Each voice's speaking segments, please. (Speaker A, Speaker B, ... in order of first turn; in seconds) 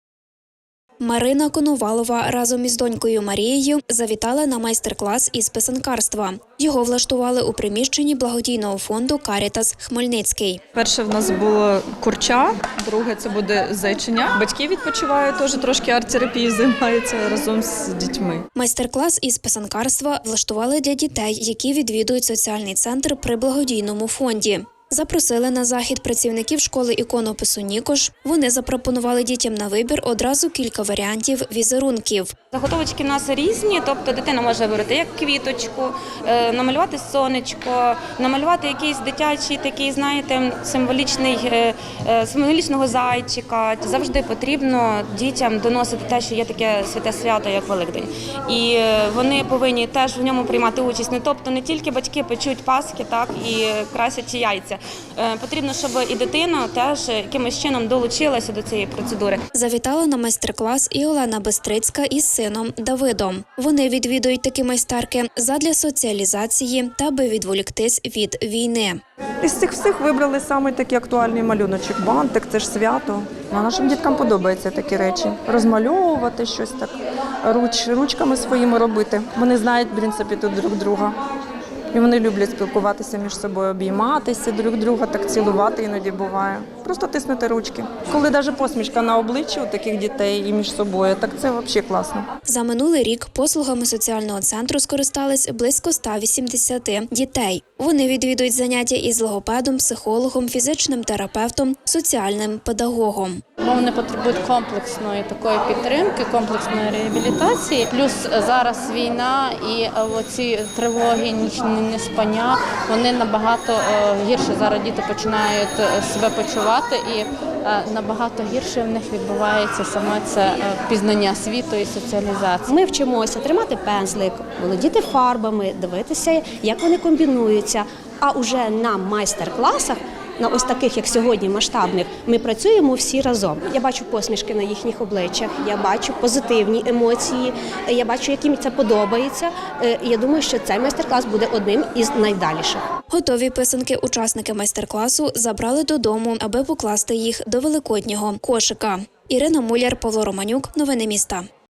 Speaker A: 1.0-10.6, 18.6-32.4, 59.5-69.0, 92.5-103.4, 143.1-151.5
Speaker B: 10.8-18.4, 69.4-81.2, 81.9-92.3
Speaker C: 32.5-59.4
Speaker D: 103.6-122.7
Speaker E: 122.7-142.8